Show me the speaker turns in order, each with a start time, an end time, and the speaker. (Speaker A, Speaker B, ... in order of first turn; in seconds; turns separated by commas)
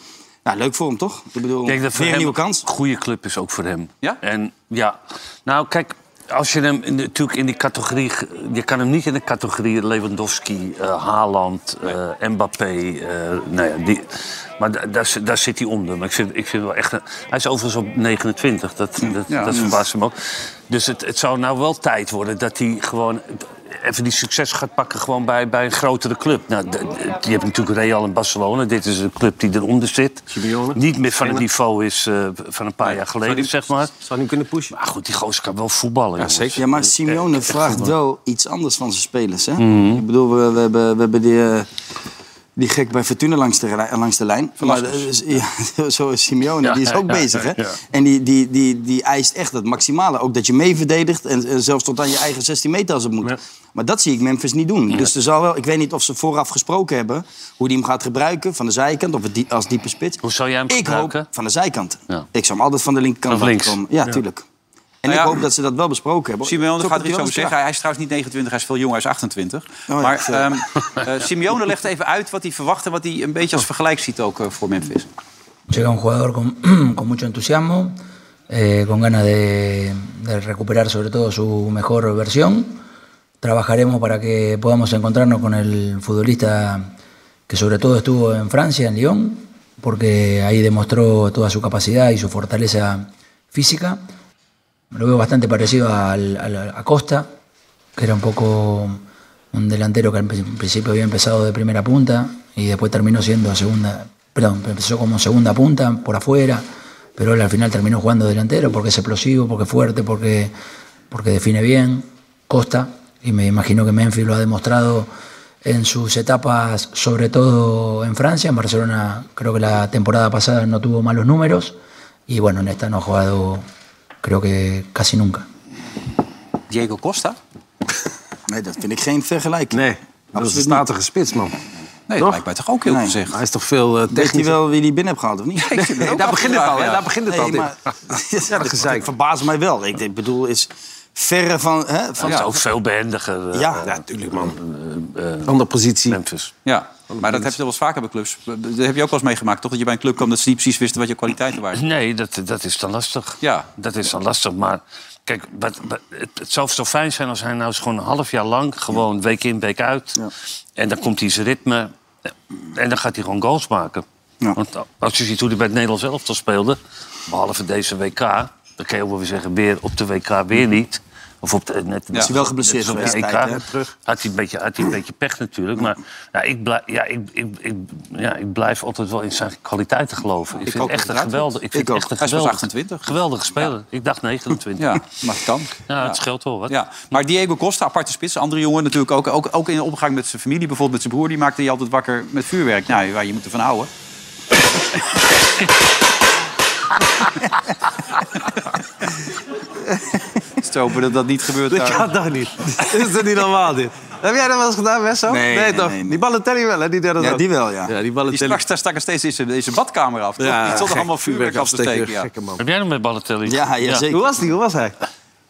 Speaker A: 0.4-2.6, Speaker B: 1.6-33.9, Speaker C: 19.3-19.7, Speaker D: 30.3-31.4, Speaker D: 33.2-34.7, Speaker B: 34.7-37.9, Speaker A: 36.4-41.7, Speaker B: 39.6-40.0, Speaker A: 42.6-64.4, Speaker C: 44.6-45.1, Speaker B: 46.6-47.8, Speaker B: 60.2-61.3, Speaker B: 63.2-64.2, Speaker A: 65.0-67.5, Speaker C: 65.1-65.4, Speaker C: 66.4-75.1, Speaker A: 69.9-70.5, Speaker E: 75.7-78.0, Speaker E: 78.5-82.8, Speaker E: 83.4-86.9, Speaker E: 87.5-94.0, Speaker E: 94.9-97.3, Speaker E: 98.0-99.0, Speaker E: 99.5-110.5, Speaker E: 111.1-115.1, Speaker E: 115.6-121.7, Speaker E: 122.3-123.6, Speaker E: 124.2-125.5, Speaker C: 126.7-127.4, Speaker A: 128.5-130.8, Speaker D: 129.7-131.5, Speaker C: 132.1-133.3, Speaker A: 132.8-133.2, Speaker D: 133.3-134.6, Speaker A: 134.1-142.6, Speaker C: 135.6-137.0, Speaker D: 135.9-137.7, Speaker D: 138.5-139.1, Speaker B: 142.2-145.5, Speaker A: 143.5-143.8, Speaker D: 143.8-144.6, Speaker D: 145.4-146.2, Speaker B: 146.1-146.5, Speaker C: 146.6-151.8, Speaker D: 147.1-147.5, Speaker B: 151.7-161.9, Speaker C: 153.4-153.7, Speaker B: 162.7-164.0, Speaker B: 164.6-185.0, Speaker A: 172.2-173.7, Speaker C: 180.7-181.5, Speaker A: 181.7-182.1, Speaker C: 182.2-183.7, Speaker C: 184.8-193.9, Speaker B: 185.9-187.2, Speaker C: 200.6-202.1, Speaker D: 201.7-208.6, Speaker A: 205.3-206.2, Speaker A: 207.2-207.9, Speaker C: 208.3-212.3, Speaker D: 210.4-212.6, Speaker B: 212.6-214.1, Speaker A: 213.4-214.2, Speaker D: 214.1-215.0